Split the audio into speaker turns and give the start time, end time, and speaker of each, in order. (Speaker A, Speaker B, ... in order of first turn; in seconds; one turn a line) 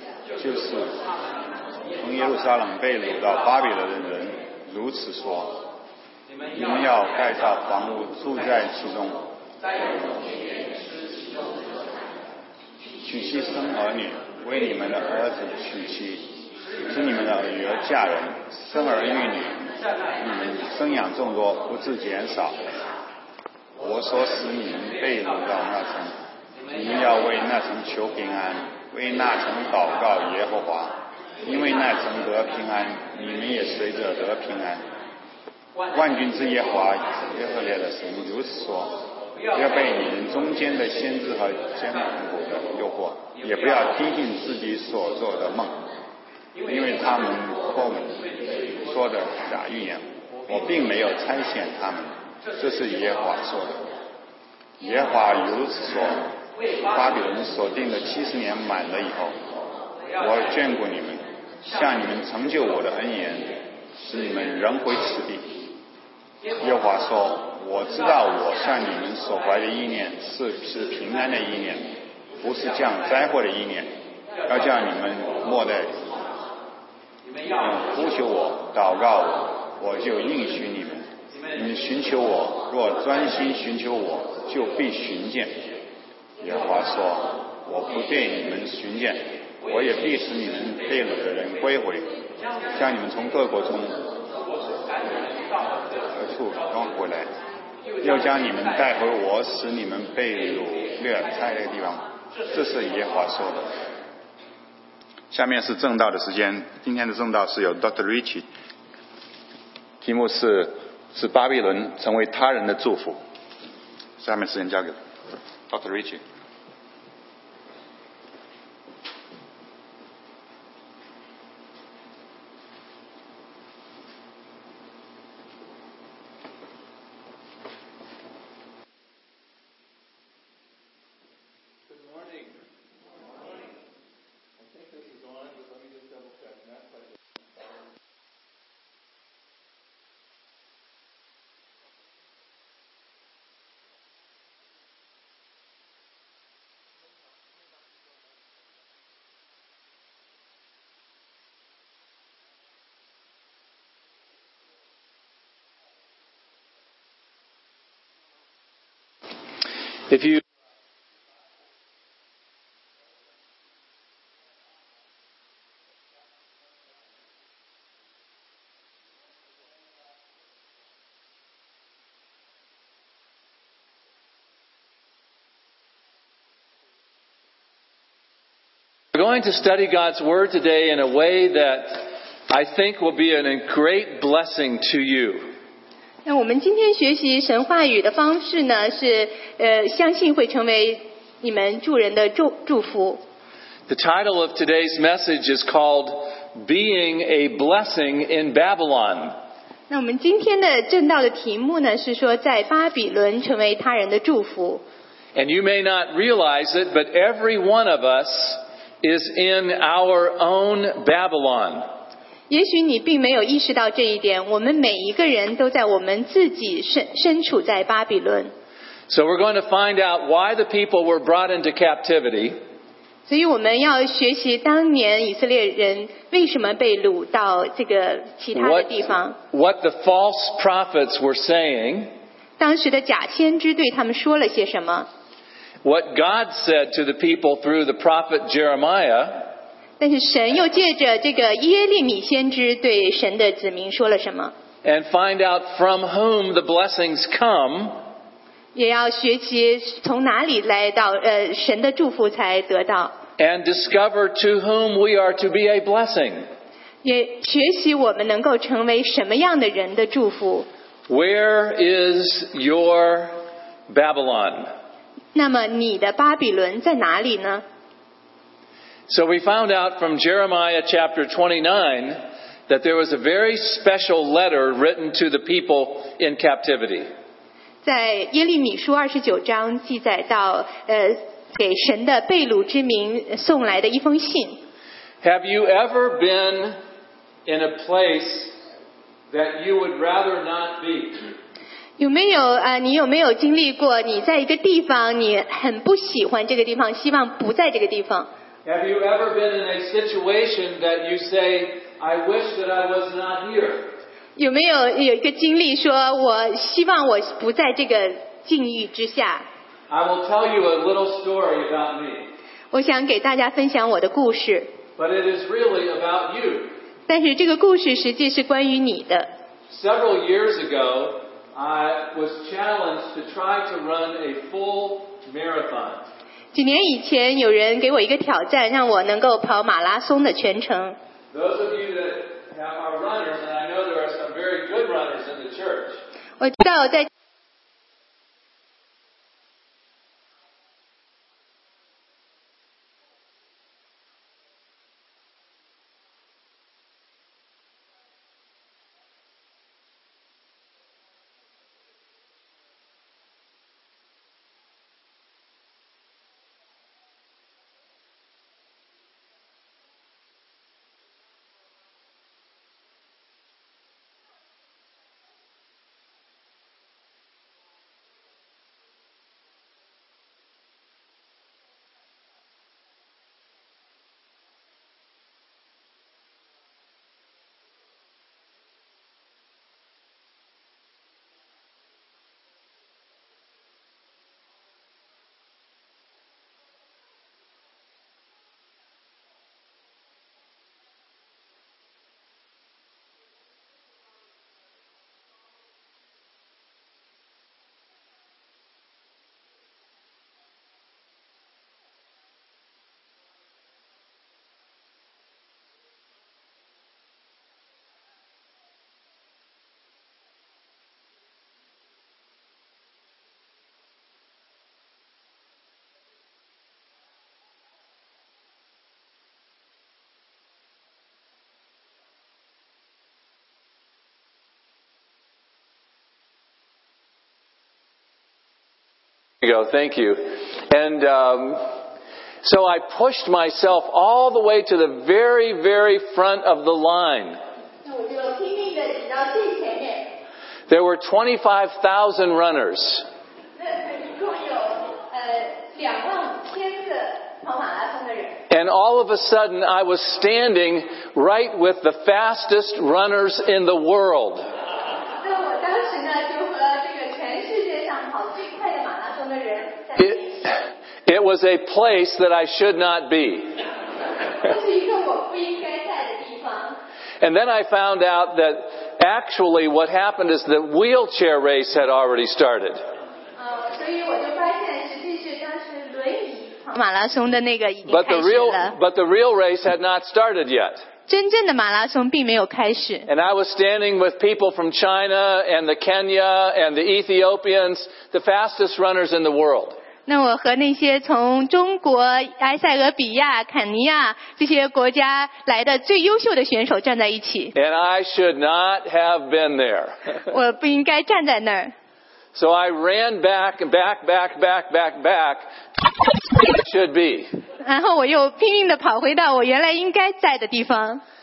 Speaker A: 0.4-1.0
Speaker A: 2.0-5.7
Speaker A: 6.5-9.3
Speaker A: 13.0-19.7
Speaker A: 20.2-22.6
Speaker A: 23.8-26.2
Speaker A: 26.7-34.9
Speaker A: 35.9-45.9
Speaker A: 46.6-48.3
Speaker A: 48.8-53.9
Speaker A: 54.8-56.3
Speaker A: 56.9-59.4
Speaker A: 60.2-65.7
Speaker A: 66.6-74.0
Speaker A: 74.5-76.1
Speaker A: 77.5-85.7
Speaker A: 86.4-92.1
Speaker A: 92.7-94.1
Speaker A: 96.1-97.3
Speaker A: 98.0-103.7
Speaker A: 105.3-108.5
Speaker A: 110.0-113.2
Speaker A: 114.2-115.0
Speaker A: 115.7-116.2
Speaker B: 131.9-132.6
Speaker B: 134.6-136.8
Speaker B: 160.1-160.4
Speaker B: 179.1-185.5
Speaker C: 186.2-193.2
Speaker B: 193.9-199.4
Speaker C: 199.9-204.8
Speaker B: 205.3-211.9
Speaker C: 212.5-218.5
Speaker B: 219.1-222.6
Speaker C: 223.3-229.4
Speaker B: 228.6-232.1
Speaker C: 232.6-235.1
Speaker B: 235.8-239.5
Speaker C: 240.0-244.5
Speaker B: 244.8-248.0
Speaker C: 248.8-253.2
Speaker B: 253.4-256.5
Speaker C: 257.0-260.7
Speaker B: 261.1-264.7
Speaker C: 265.3-267.6
Speaker B: 269.1-277.1
Speaker C: 277.8-284.6
Speaker B: 285.2-286.8
Speaker B: 287.5-288.6
Speaker B: 289.3-291.2
Speaker C: 292.0-298.3
Speaker B: 298.6-303.9
Speaker C: 304.4-309.4
Speaker B: 309.9-312.3
Speaker C: 312.7-314.7
Speaker B: 315.0-316.8
Speaker C: 317.1-319.3
Speaker B: 319.7-326.1
Speaker C: 326.5-331.0
Speaker B: 331.3-336.0
Speaker C: 336.4-337.1
Speaker B: 429.4-431.8
Speaker B: 432.4-437.4
Speaker C: 437.9-440.1
Speaker B: 440.7-443.1
Speaker C: 443.6-448.4
Speaker B: 448.5-454.5
Speaker C: 455.2-460.4
Speaker B: 460.0-463.6
Speaker C: 464.4-466.8
Speaker B: 467.2-472.8
Speaker C: 473.4-478.8
Speaker B: 477.9-480.9
Speaker C: 481.1-483.1
Speaker B: 483.1-489.8
Speaker C: 490.1-497.5
Speaker B: 497.6-500.0
Speaker C: 500.3-501.7
Speaker B: 502.3-505.5
Speaker B: 506.4-507.3
Speaker C: 507.6-511.0